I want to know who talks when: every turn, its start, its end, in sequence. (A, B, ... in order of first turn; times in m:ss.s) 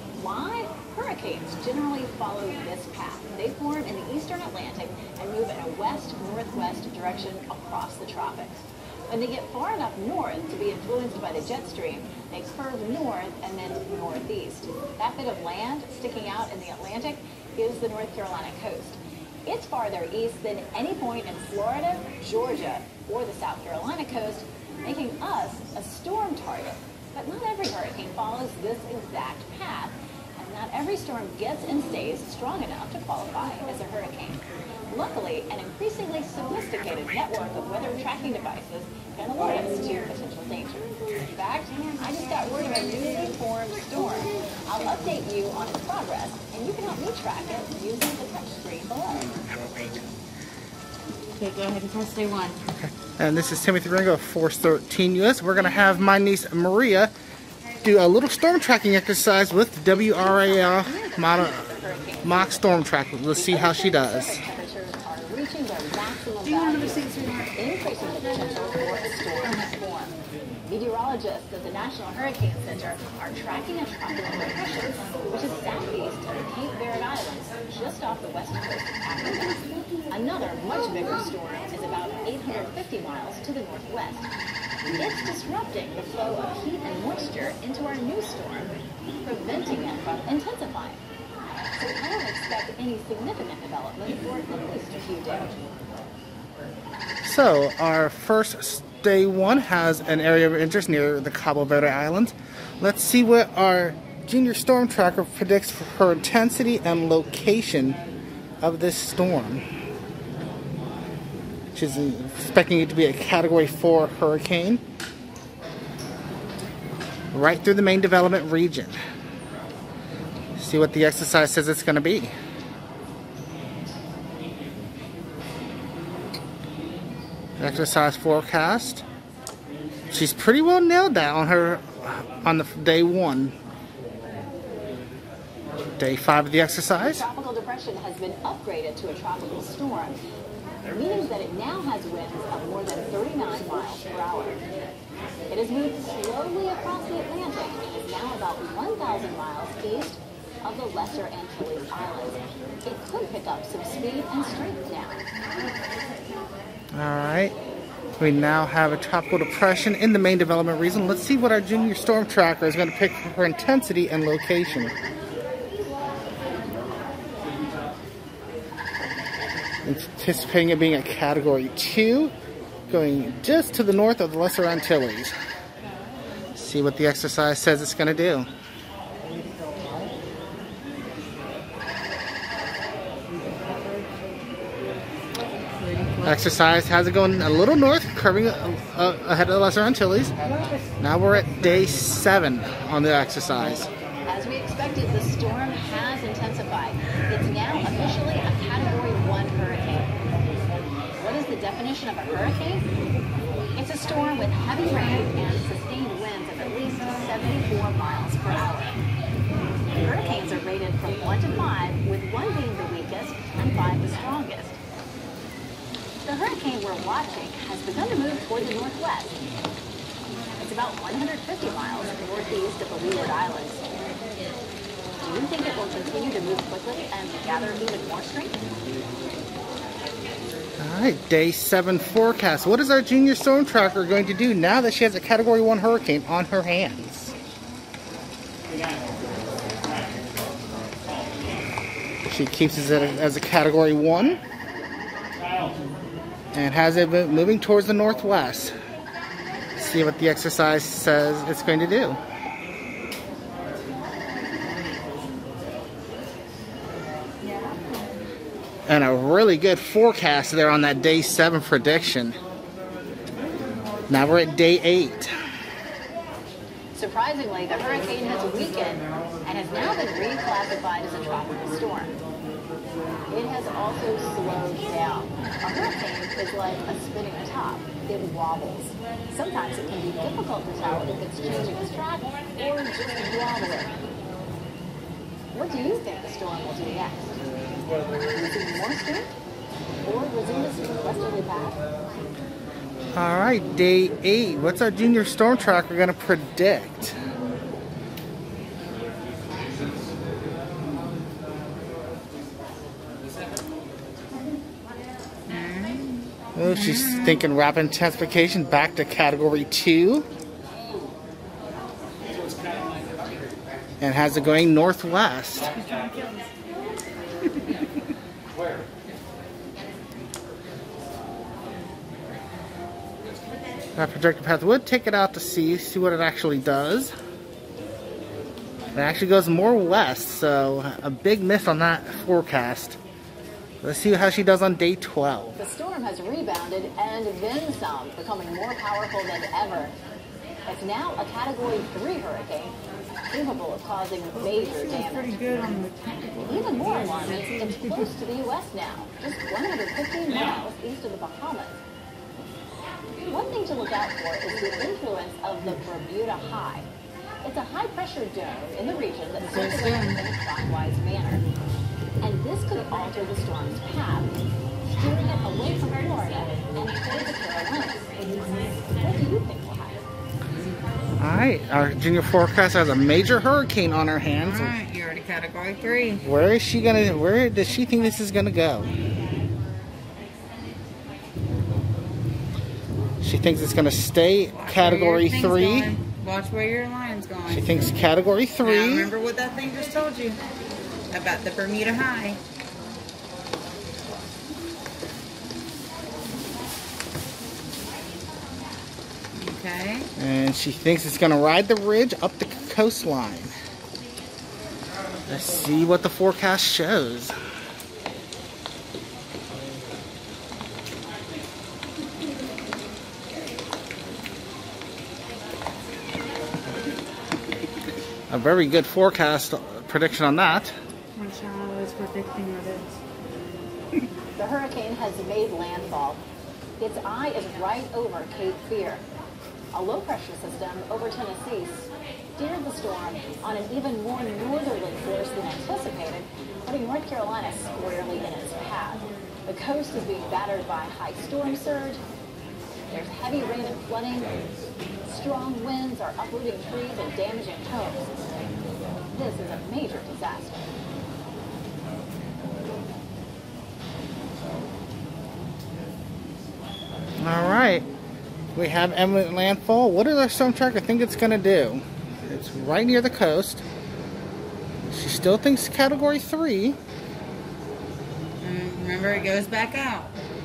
0:00.1-0:49.4 A
0:49.6-0:49.9 B
0:51.4-0:52.6 C
0:52.7-0:57.1 B
0:57.8-1:01.7 B
1:00.4-1:02.7 A
1:02.2-1:04.4 B
1:03.3-1:24.3 A
1:06.4-1:07.5 C
1:24.9-1:31.0 A
1:31.7-1:35.6 A
1:37.2-1:48.0 B
1:48.6-1:49.6 B
1:51.7-1:54.8 B
1:57.3-1:59.0 B
2:00.6-2:02.3 B
2:07.6-2:09.0 B
2:10.1-2:13.6 B
2:16.0-2:17.2 B
2:16.9-2:20.2 A
2:20.9-2:24.6 A
2:25.5-2:35.2 A
2:36.9-2:37.6 B
2:38.2-2:44.9 B
2:49.8-2:52.3 B
2:52.9-2:55.3 B
2:56.5-2:58.5 B
3:05.7-3:06.4 C
3:06.2-3:10.3 B
3:11.0-3:13.9 B
3:14.2-3:20.1 A
3:21.2-3:22.8 A
3:23.8-3:29.0 A
3:30.0-3:34.8 A
3:36.2-3:39.4 A
3:40.6-3:43.8 A
3:45.2-3:48.6 A
3:50.8-3:57.3 B
4:02.3-4:04.4 B
4:06.5-4:08.7 B
4:09.8-4:12.2 B
4:18.9-4:22.4 B
4:24.1-4:25.3 B
4:26.9-4:32.2 A
4:33.3-4:44.0 A
4:45.5-4:47.4 A
4:48.3-4:49.3 A
4:50.0-4:51.8 A
4:53.1-4:57.2 B
5:05.5-5:07.4 C
5:06.5-5:10.3 B
5:14.0-5:15.8 B
5:24.0-5:27.1 B
5:28.9-5:33.0 B
5:33.8-5:35.6 B
5:35.6-5:39.9 A
5:40.7-5:42.8 A
5:43.3-5:45.6 A
5:44.3-5:48.1 C
5:46.4-5:51.8 A
5:53.3-5:56.9 A
5:57.4-6:01.4 A
5:59.4-6:00.2 C
6:02.2-6:04.4 A
6:04.9-6:10.0 A
6:11.2-6:14.8 B
6:14.4-6:16.2 C
6:16.2-6:18.9 B
6:23.2-6:26.0 B
6:24.5-6:27.8 C
6:27.5-6:29.1 B
6:28.6-6:30.4 C
6:31.1-6:32.4 C
6:39.3-6:40.1 C
6:40.2-6:43.5 B
6:45.3-6:47.3 B
6:58.3-7:00.7 B
7:01.2-7:03.0 C
7:04.4-7:06.2 A
7:06.8-7:09.0 A
7:09.7-7:22.0 A
7:22.9-7:24.5 A
7:25.0-7:28.1 A
7:29.1-7:30.6 A
7:37.2-7:37.9 B
7:38.6-7:43.6 B
7:44.9-7:46.8 B
7:48.4-7:50.2 C